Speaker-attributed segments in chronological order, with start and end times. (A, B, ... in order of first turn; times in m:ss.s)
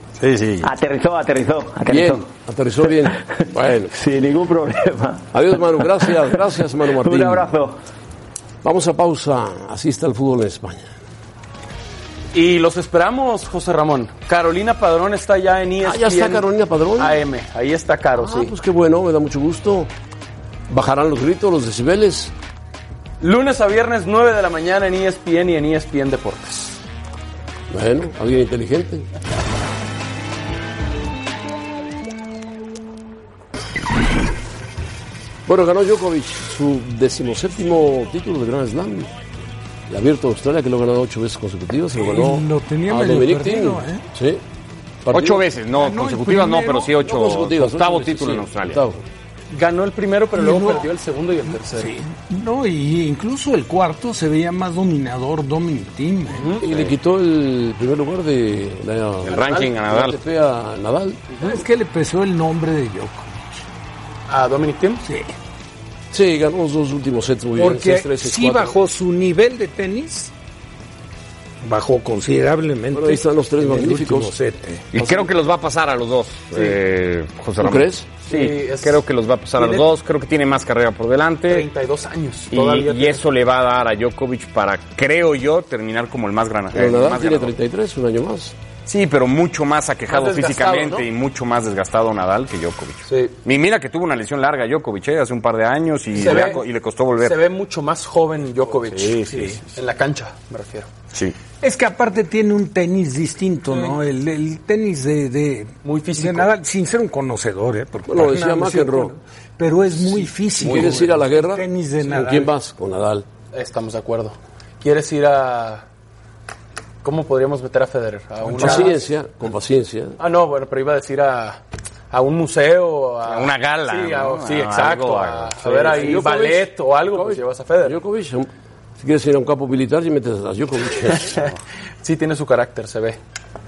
0:00.2-0:00.6 A
0:00.6-0:02.3 B
0:01.9-0:03.9 C
0:02.8-0:03.1 B
0:03.9-0:07.8 B
0:05.3-0:07.5 C
0:08.6-0:10.9 C
0:12.3-0:16.5 D
0:15.8-0:17.2 C
0:17.0-0:18.5 D
0:18.1-0:19.9 C
0:20.7-0:22.3 C
0:23.2-0:26.8 D
0:27.7-0:29.1 C
0:35.5-0:39.1 C
0:39.9-0:44.4 C
0:42.0-0:44.0 E
0:45.0-0:45.5 C
0:45.1-0:48.8 A
0:45.8-0:46.9 E
0:47.0-0:49.0 C
0:49.5-0:51.9 D
0:50.4-0:50.9 E
0:51.7-0:56.6 E
0:56.6-1:01.4 C
0:56.6-0:56.9 A
0:59.2-1:00.2 A
0:59.4-0:59.7 D
1:01.4-1:03.6 E
1:04.3-1:05.0 D
1:05.0-1:05.4 E
1:06.1-1:08.8 C
1:07.6-1:10.3 E
1:11.6-1:14.9 E
1:12.9-1:14.4 C
1:14.9-1:21.7 A
1:15.0-1:15.3 C
1:17.6-1:18.2 C
1:18.2-1:19.0 D
1:19.6-1:19.9 D
1:21.5-1:23.3 D
1:22.5-1:27.6 A
1:26.7-1:28.6 C
1:28.9-1:37.4 A
1:30.1-1:31.1 D
1:33.1-1:33.4 D
1:36.1-1:36.6 D
1:37.2-1:40.9 D
1:38.8-1:39.6 A
1:39.3-1:39.6 E
1:41.6-1:52.5 E
1:43.7-1:44.0 D
1:45.8-1:46.5 D
1:48.1-1:49.2 C
1:50.6-1:53.3 C
1:50.6-1:50.9 D
1:53.5-1:55.8 D
1:57.0-1:59.0 D
1:58.4-1:58.9 E
1:58.6-2:00.2 C
2:00.2-2:08.0 D
2:03.2-2:06.0 A
2:05.6-2:11.5 C
2:12.0-2:13.2 D